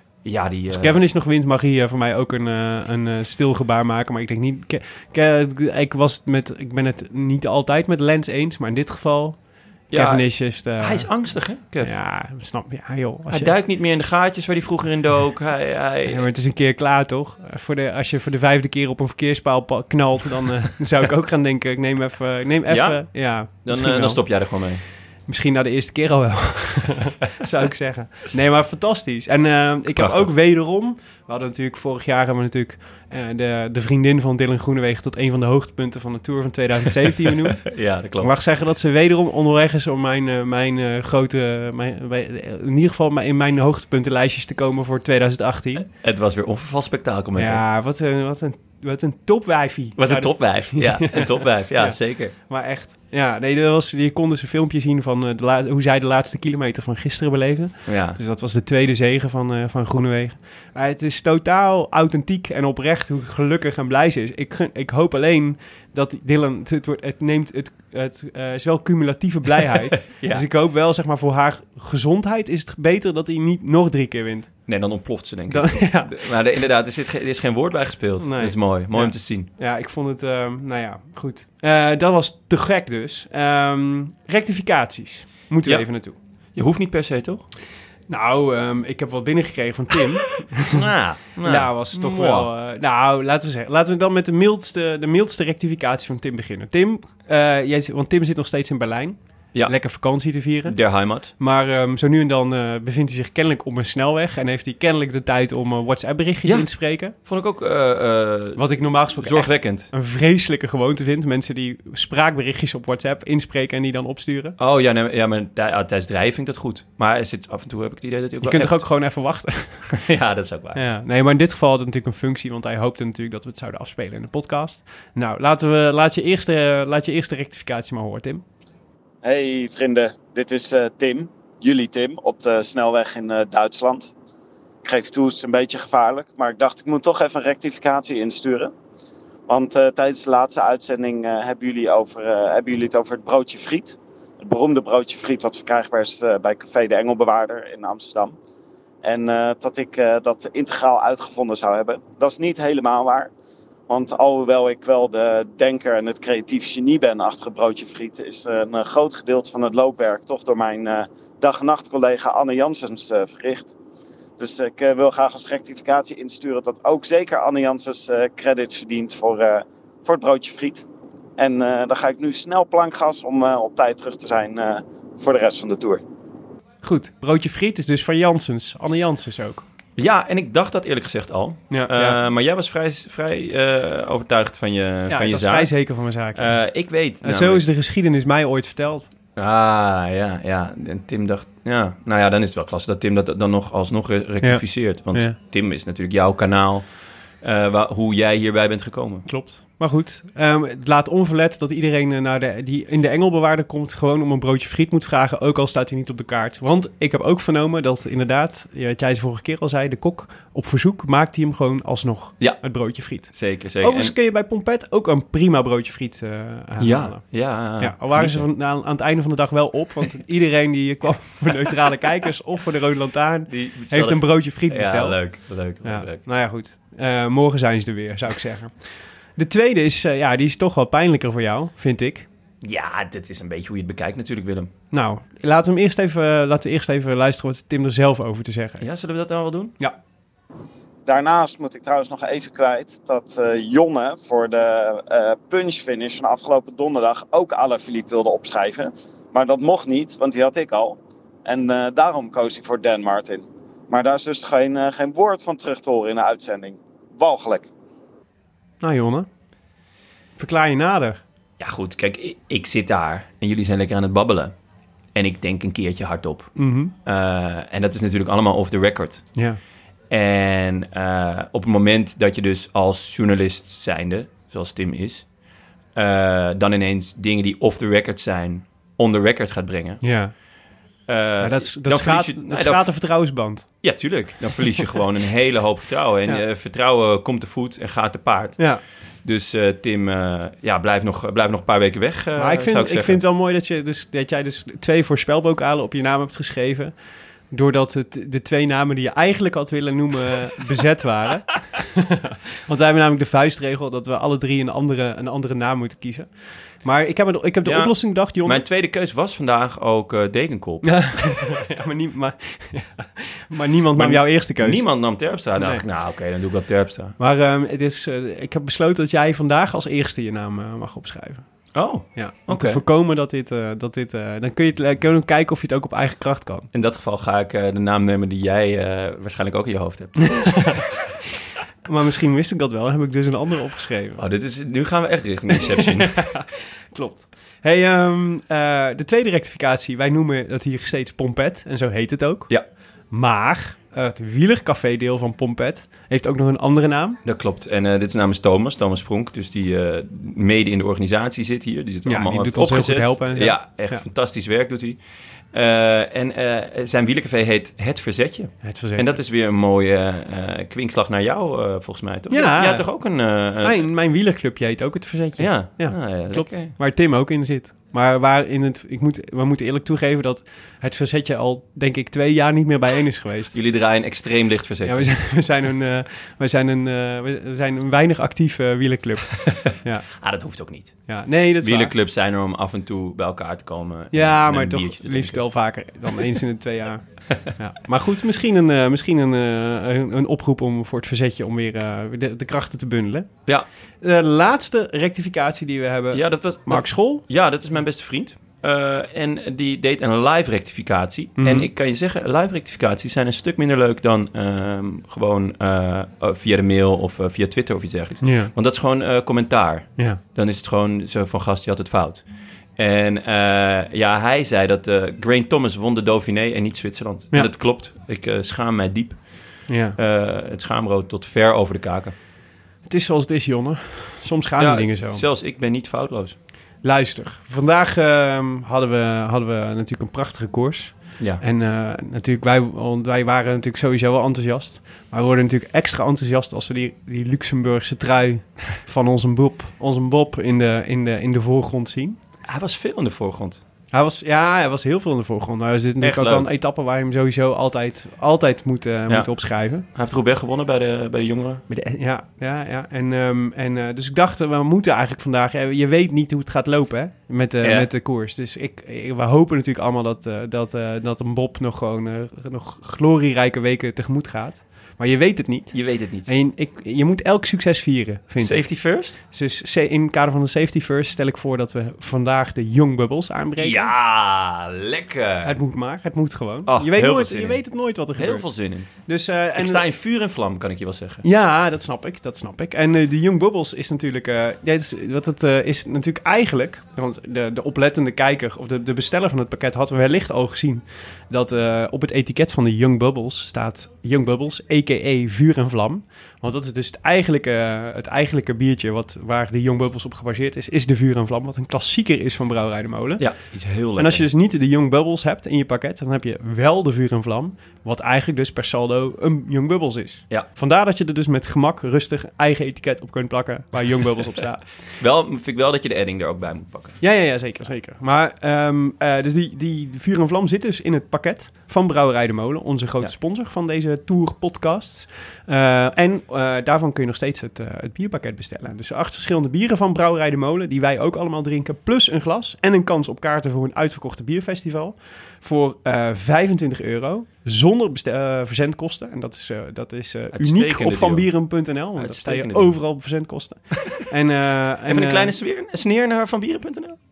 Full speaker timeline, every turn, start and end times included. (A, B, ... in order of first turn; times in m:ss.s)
0:00.2-0:01.0 A
0:00.7-0:11.2 B
0:09.9-0:11.9 A
0:11.8-0:13.5 B
0:13.3-0:16.3 A
0:16.1-0:24.2 B
0:22.7-0:24.8 A
0:25.3-0:45.9 B
0:30.0-0:30.3 A
0:37.6-0:38.4 A
0:45.9-0:47.6 A
0:47.4-1:14.5 B
0:50.0-0:52.3 A
0:57.9-0:58.2 A
1:10.1-1:10.4 A
1:14.7-1:19.5 A
1:15.5-1:16.1 B
1:18.2-1:26.2 B
1:26.6-1:27.5 A
1:28.1-1:30.8 B
1:30.7-1:32.5 A
1:31.4-1:40.8 B
1:40.7-1:41.3 A
1:41.3-1:47.1 B
1:46.4-1:48.6 A
1:48.6-1:54.6 B
1:49.2-1:49.9 A
1:54.6-1:58.8 A
1:58.4-1:59.9 B
1:59.9-2:00.8 A
2:00.8-2:08.4 B
2:09.2-2:14.1 C
2:14.8-2:18.7 C
2:19.5-2:28.4 C
2:29.0-2:33.3 C
2:33.9-2:43.7 C
2:44.4-2:50.9 C
2:51.4-2:56.0 C
2:56.8-2:59.6 B
3:00.0-3:05.7 A
3:01.7-3:02.2 B
3:05.1-3:06.6 B
3:06.4-3:07.6 A
3:07.2-3:09.1 B
3:09.4-3:16.8 A
3:14.4-3:15.4 B
3:17.4-3:19.3 A
3:19.2-3:37.2 B
3:33.2-3:34.1 A
3:36.8-3:38.4 A
3:37.8-3:45.2 B
3:43.5-3:46.2 A
3:45.8-3:48.7 B
3:49.4-3:52.3 B
3:52.6-3:54.7 A
3:54.9-3:58.8 B
3:58.8-3:59.8 A
4:01.1-4:17.7 C
4:18.8-4:19.3 B
4:20.4-4:21.2 B
4:21.6-4:24.5 A
4:25.1-4:29.3 A
4:26.6-4:26.9 B
4:30.1-4:35.3 A
4:36.0-4:40.0 A
4:40.0-4:40.3 B
4:41.1-4:42.9 A
4:41.4-4:43.7 B
4:43.8-4:53.2 A
4:52.4-4:56.9 B
4:57.5-5:06.3 B
5:06.8-5:08.6 B
5:07.6-5:11.2 A
5:10.8-5:14.8 B
5:14.0-5:17.2 A
5:15.6-5:15.8 B
5:17.2-5:21.5 B
5:21.7-5:22.8 A
5:22.1-5:26.7 B
5:26.7-5:30.8 A
5:30.3-5:30.8 B
5:31.9-5:34.2 B
5:34.2-5:36.3 A
5:35.6-5:42.5 B
5:43.1-5:47.2 B
5:47.2-5:55.0 A
5:52.1-5:54.0 B
5:55.5-6:03.9 A
5:58.6-5:59.1 B
6:02.3-6:02.9 B
6:03.6-6:13.6 B
6:05.4-6:06.8 A
6:13.5-6:15.1 A
6:14.8-6:20.1 B
6:20.2-6:21.1 A
6:21.1-6:21.9 B
6:21.6-6:25.4 A
6:24.1-6:33.3 B
6:34.0-6:37.2 B
6:36.1-6:52.2 A
6:41.4-6:41.7 B
6:48.2-6:48.5 B
6:52.8-7:02.1 A
6:59.7-7:00.0 B
7:02.9-7:05.2 B
7:04.6-7:06.4 A
7:06.8-7:22.2 B
7:22.4-7:23.6 A
7:23.9-7:29.8 B
7:26.0-7:26.5 A
7:29.9-7:31.6 A
7:31.7-7:48.6 B
7:37.6-7:37.9 A
7:45.7-7:46.3 A
7:48.4-7:49.2 A
7:49.2-7:53.9 B
7:53.6-7:55.6 A
7:55.4-7:58.4 B
7:56.7-7:58.9 A
7:59.1-7:59.8 B
7:59.6-8:01.2 A
8:01.2-8:23.3 B
8:23.2-8:24.3 A
8:24.0-8:34.6 B
8:35.0-8:37.0 A
8:37.0-9:05.3 B
9:00.3-9:01.4 A
9:02.0-9:02.8 A
9:04.9-9:07.0 A